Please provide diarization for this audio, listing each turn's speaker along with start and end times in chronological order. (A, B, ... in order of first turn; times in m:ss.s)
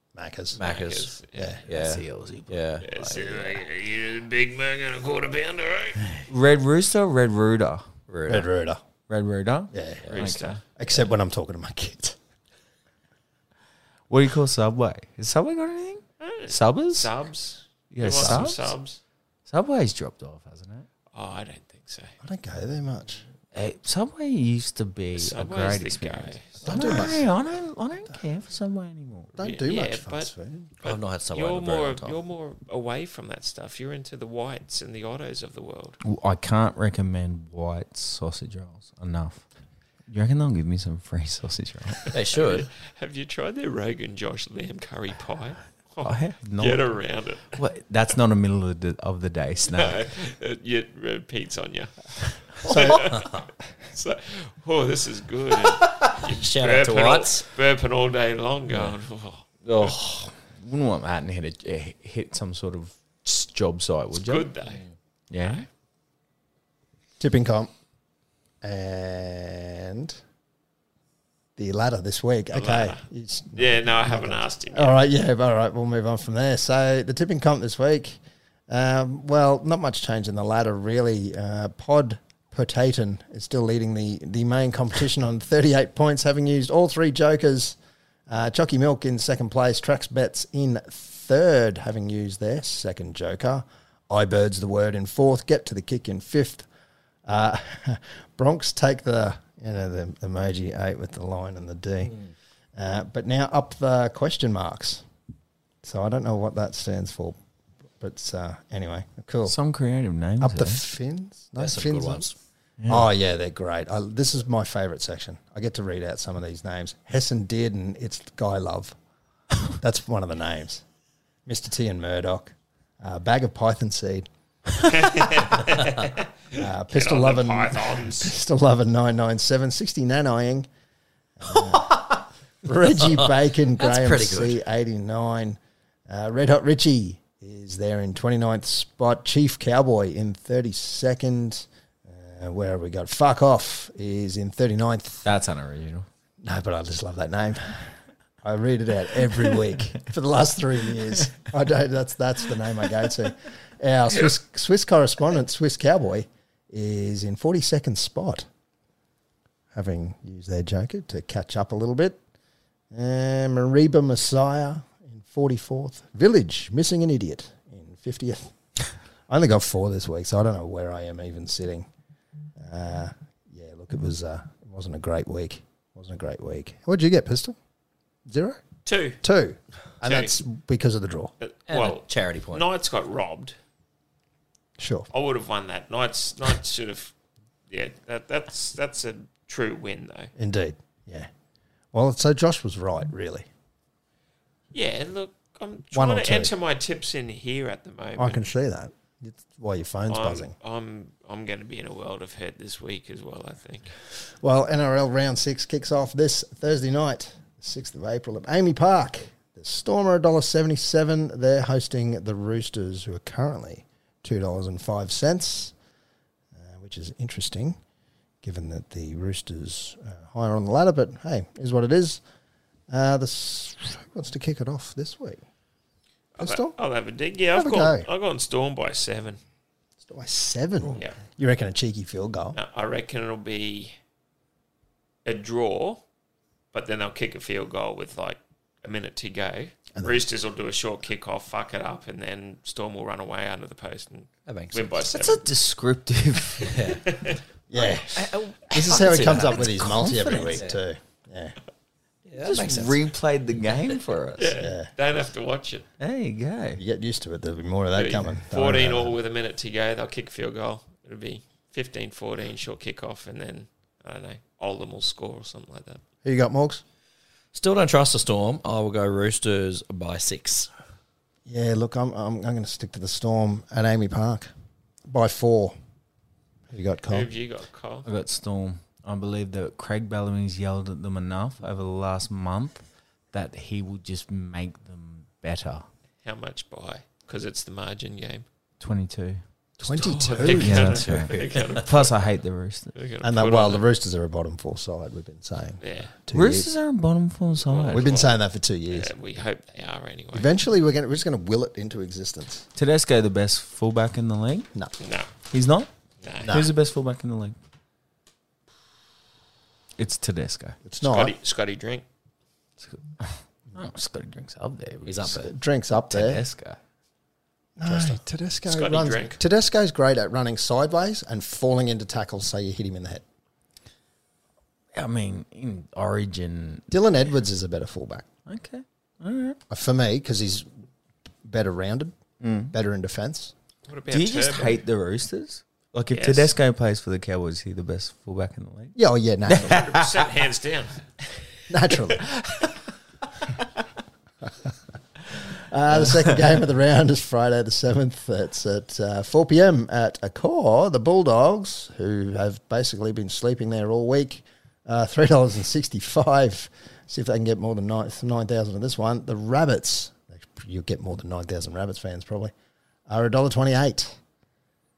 0:00.2-0:00.6 A
0:00.6-0:01.2 B
0:00.6-0:01.6 C
0:01.7-0:02.9 B
0:01.7-0:03.6 D
0:02.8-0:06.1 C
0:06.3-0:07.9 D
0:08.1-0:08.5 B
0:08.3-0:08.8 A
0:09.1-0:10.6 D
0:09.7-0:10.1 A
0:10.1-0:10.6 C
0:10.8-0:12.2 A
0:14.1-0:17.1 D
0:16.2-0:19.0 C
0:17.9-0:18.7 D
0:18.2-0:18.4 A
0:19.5-0:20.9 D
0:21.1-0:22.2 C
0:22.2-0:23.2 A
0:23.5-0:29.3 D
0:25.2-0:27.2 C
0:26.6-0:27.3 A
0:29.4-0:30.7 A
0:29.4-0:36.0 C
0:30.8-0:32.2 B
0:36.0-0:39.4 D
0:40.1-0:42.1 D
0:42.1-0:42.7 B
0:42.3-0:47.6 C
0:46.0-0:46.9 D
0:47.5-0:50.0 D
0:49.7-1:00.0 C
0:52.6-0:53.2 A
0:53.0-0:53.4 B
0:55.7-0:57.5 B
0:59.6-1:04.5 D
1:04.1-1:04.8 C
1:05.3-1:05.7 D
1:05.4-1:05.7 C
1:07.2-1:07.7 A
1:08.6-1:10.2 A
1:11.6-1:18.2 A
1:12.5-1:13.0 C
1:13.6-1:15.0 C
1:18.7-1:27.8 A
1:28.3-1:36.7 A
1:37.3-1:42.2 A
1:42.8-1:45.0 A
1:45.8-1:47.4 A
1:48.0-1:49.6 A
1:49.5-1:50.8 D
1:50.4-1:52.3 A
1:51.6-1:52.4 B
1:52.8-1:53.1 D
1:52.9-1:59.0 A
1:59.8-2:00.8 A
2:01.5-2:04.3 A
2:04.8-2:08.3 C
2:06.6-2:10.7 A
2:11.4-2:25.3 A
2:13.8-2:14.6 B
2:25.2-2:26.1 D
2:26.4-2:38.5 A
2:39.7-2:42.2 A
2:42.9-2:48.5 A
2:49.3-2:51.9 A
2:52.6-2:57.6 A
2:58.3-2:58.6 A
2:58.9-2:59.2 C
2:59.2-3:01.3 A
3:00.0-3:00.3 C
3:01.4-3:03.6 C
3:01.7-3:02.6 B
3:04.8-3:05.1 A
3:05.1-3:07.1 C
3:07.7-3:10.3 C
3:10.4-3:11.3 A
3:11.9-3:13.5 A
3:14.7-3:18.4 C
3:15.9-3:16.5 A
3:18.2-3:20.5 A
3:20.1-3:24.0 C
3:24.4-3:35.7 A
3:36.6-3:37.8 A
3:38.4-3:42.2 A
3:42.9-3:45.4 A
3:46.4-3:49.4 C
3:46.4-3:46.8 A
3:47.5-3:48.1 A
3:50.1-3:52.6 A
3:52.5-3:54.0 C
3:55.2-3:56.0 C
3:56.7-4:05.4 C
4:00.0-4:00.2 A
4:04.5-4:05.0 B
4:05.1-4:07.0 D
4:06.6-4:10.8 B
4:07.0-4:07.4 C
4:07.7-4:11.6 A
4:08.9-4:10.6 D
4:12.3-4:13.0 B
4:12.4-4:14.6 D
4:14.4-4:15.9 C
4:14.6-4:14.9 A
4:16.0-4:16.8 D
4:16.8-4:19.2 A
4:18.0-4:26.0 C
4:26.2-4:26.8 A
4:27.5-4:30.7 B
4:31.5-4:34.5 A
4:35.1-4:35.8 A
4:36.7-4:37.3 A
4:37.1-4:38.1 C
4:38.0-4:45.8 D
4:46.2-4:48.4 C
4:48.8-4:49.4 D
4:49.8-4:50.9 A
4:49.8-4:52.2 C
4:50.5-4:51.9 B
4:50.6-4:52.9 D
4:52.9-4:53.8 C
4:53.2-4:56.7 A
4:55.8-4:56.1 C
4:56.3-4:58.1 D
4:57.6-4:58.4 C
4:57.9-4:59.1 A
4:58.9-5:00.5 C
5:00.3-5:02.7 A
5:02.8-5:04.7 D
5:05.0-5:05.3 C
5:05.5-5:05.9 D
5:06.2-5:06.6 C
5:06.4-5:06.7 A
5:06.5-5:07.6 D
5:10.0-5:10.8 D
5:10.8-5:11.3 A
5:11.0-5:12.0 C
5:12.8-5:15.5 D
5:15.1-5:15.5 B
5:15.3-5:16.4 A
5:16.1-5:16.8 D
5:17.8-5:23.2 A
5:17.9-5:18.2 D
5:18.7-5:19.4 C
5:24.9-5:26.9 D
5:26.9-5:28.3 A
5:28.5-5:29.6 D
5:29.7-5:30.7 A
5:31.4-5:32.2 A
5:32.4-5:32.7 D
5:32.7-5:33.5 A
5:33.9-5:34.8 C
5:34.1-5:39.0 D
5:36.1-5:36.5 C
5:39.0-5:39.8 A
5:39.5-5:40.2 D
5:39.5-5:41.1 C
5:41.7-5:42.3 A
5:45.5-6:02.5 A
6:03.1-6:04.2 A